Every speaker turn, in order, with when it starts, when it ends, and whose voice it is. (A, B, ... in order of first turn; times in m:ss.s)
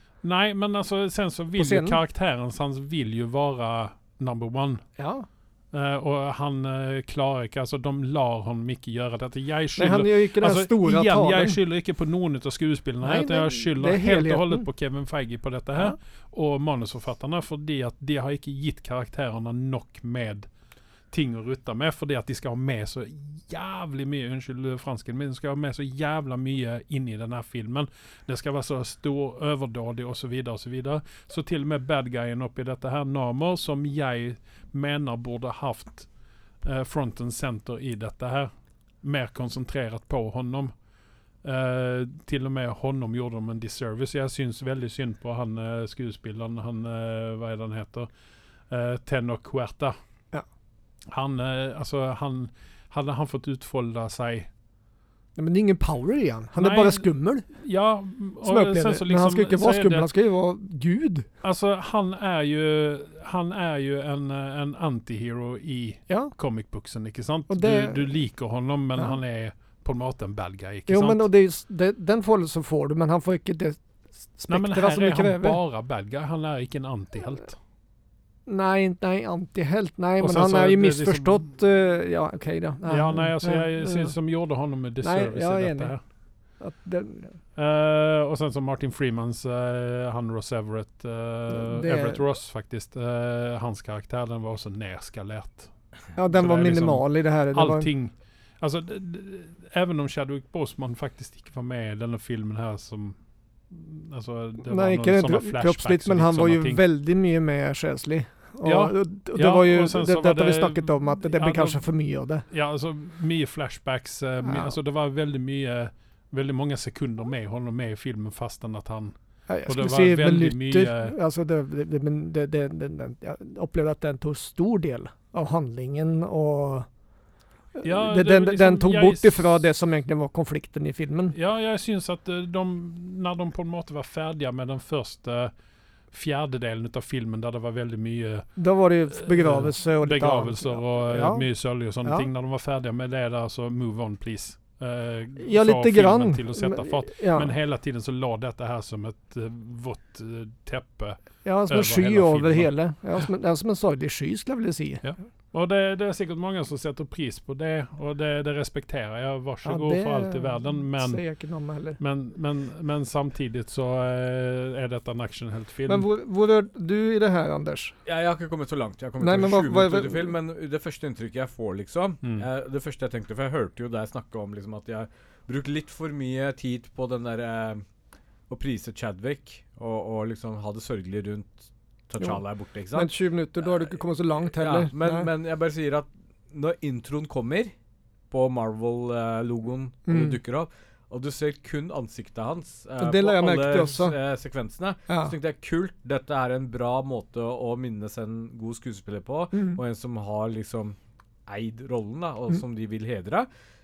0:00.2-0:04.8 A
0:01.6-0:02.0 B
0:05.0-0:05.3 B
0:05.7-0:20.5 A
0:09.8-0:11.6 B
0:13.0-0:14.7 B
0:21.1-0:36.1 A
0:36.6-0:38.5 A
0:39.0-0:40.7 A
0:41.4-0:48.1 A
0:48.7-0:50.0 A
0:51.1-0:54.5 A
0:55.4-0:57.5 B
0:56.6-1:00.1 A
0:58.4-1:01.3 B
1:01.4-1:11.3 A
1:07.5-1:08.1 B
1:10.9-1:13.8 B
1:14.4-1:15.6 B
1:14.5-1:17.6 A
1:18.5-1:24.1 B
1:20.2-1:21.4 A
1:22.9-1:26.0 A
1:25.0-1:25.9 B
1:26.6-1:27.4 B
1:27.6-1:35.7 A
1:31.5-1:32.2 B
1:36.2-1:37.9 B
1:36.3-1:43.2 A
1:43.7-1:46.8 A
1:44.6-1:52.4 B
1:48.6-1:51.9 A
1:52.5-1:59.2 A
1:54.4-1:54.8 B
1:59.5-2:06.9 B
1:59.7-2:01.2 A
2:07.8-2:11.4 B
2:07.8-2:09.6 A
2:11.3-2:15.5 A
2:16.1-2:18.5 A
2:18.6-2:21.5 B
2:19.1-2:32.7 A
2:25.4-2:27.5 B
2:31.4-2:35.0 B
2:35.0-2:41.2 A
2:39.6-2:42.0 B
2:42.0-2:46.1 A
2:45.9-2:48.0 B
2:48.1-2:57.8 C
2:49.2-2:50.3 B
2:58.5-3:03.1 C
3:02.9-3:05.3 B
3:04.5-3:07.7 C
3:08.3-3:23.5 C
3:10.1-3:10.4 B
3:13.0-3:14.2 B
3:15.1-3:15.3 B
3:19.5-3:19.8 B